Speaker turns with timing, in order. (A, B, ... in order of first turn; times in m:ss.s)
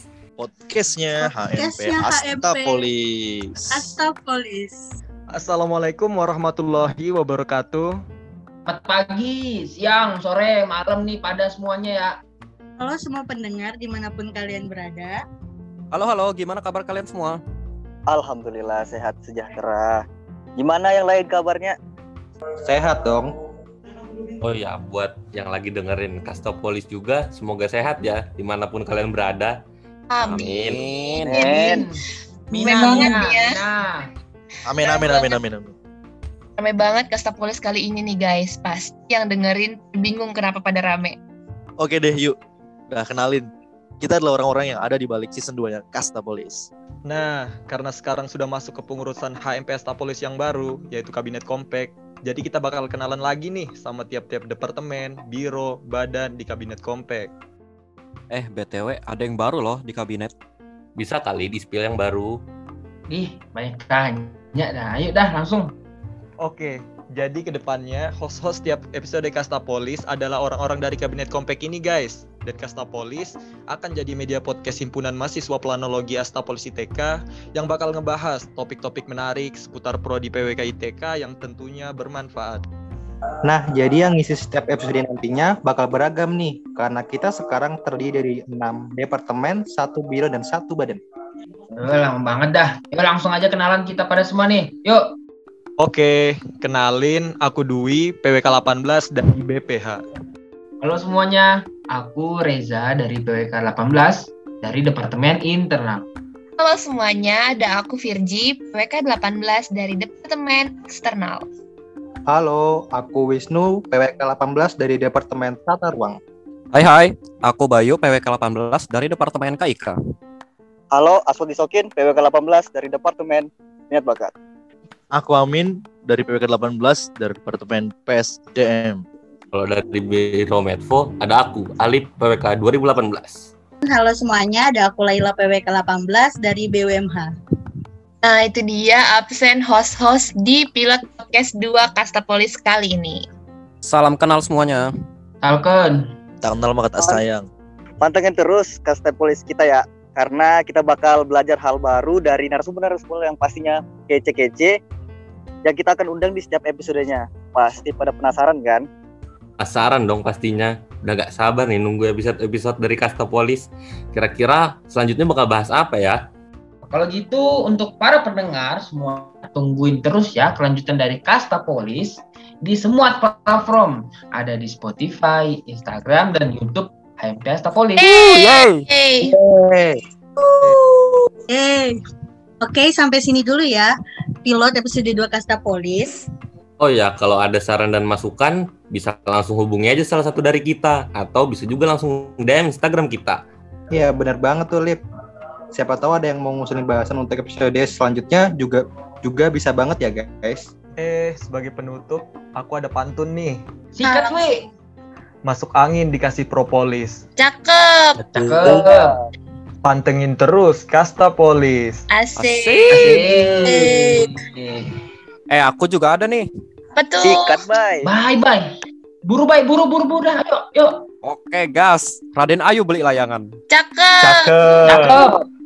0:00.4-0:04.0 A
0:01.2-0:02.9 B
0:03.7-0:04.9 B
0:05.3-0:08.0 C
0:08.7-0:12.2 D
0:12.8-0:15.2 B
0:15.9-0:17.4 E
0:18.1-0:20.0 F
0:20.6-0:21.8 F
0:22.7-0:23.3 G
0:24.4-0:29.6 H
0:30.1-0:30.9 I
0:30.2-0:31.3 E
0:30.5-0:30.8 H
0:31.3-0:32.0 D
0:31.3-0:31.8 F
0:32.5-0:34.0 D
0:32.6-0:33.6 I
0:32.6-0:33.1 B
0:34.7-0:35.7 A
0:34.9-0:35.3 I
0:36.6-0:41.2 I
0:41.8-0:42.4 A
0:42.9-0:43.5 A
0:44.0-0:46.7 A
0:47.1-0:57.3 C
0:58.3-1:00.3 E
1:01.0-1:02.4 H
1:03.1-1:05.7 D
1:06.4-1:22.6 C
1:23.5-1:31.0 G
1:31.7-1:35.0 D
1:35.8-1:40.0 C
1:40.8-1:46.0 D
1:46.6-1:51.5 I
1:52.3-1:56.2 G
1:56.7-2:00.0 E
2:00.9-2:04.3 F
2:05.1-2:09.0 A
2:09.5-2:13.5 H
2:13.8-2:17.4 B
2:18.2-2:23.3 I
2:23.8-2:24.9 E
2:25.4-2:26.0 D
2:26.4-2:27.5 A
2:28.0-2:34.8 F
2:35.6-2:38.9 F
2:39.6-2:46.2 H
2:46.9-2:58.1 D
2:58.0-2:59.4 I
2:58.4-2:58.7 E
3:00.4-3:02.0 B
3:02.6-3:03.9 B
3:04.4-3:06.3 B
3:06.8-3:13.4 H
3:13.9-3:15.0 G
3:15.8-3:20.7 G
3:21.0-3:23.6 C
3:24.0-3:24.6 D
3:24.0-3:24.7 B
3:25.4-3:27.2 C
3:27.4-3:28.2 I
3:28.4-3:29.2 D
3:28.8-3:29.0 F
3:29.8-3:32.0 C
3:32.1-3:33.1 I
3:32.4-3:33.3 E
3:32.9-3:34.9 D
3:33.7-3:34.3 B
3:35.5-3:36.5 E
3:37.0-3:37.6 I
3:37.2-3:38.1 F
3:38.0-3:38.7 D
3:39.2-3:41.0 D
3:41.2-3:43.5 E
3:43.7-3:44.6 I
3:44.2-3:45.2 C
3:44.9-3:45.4 D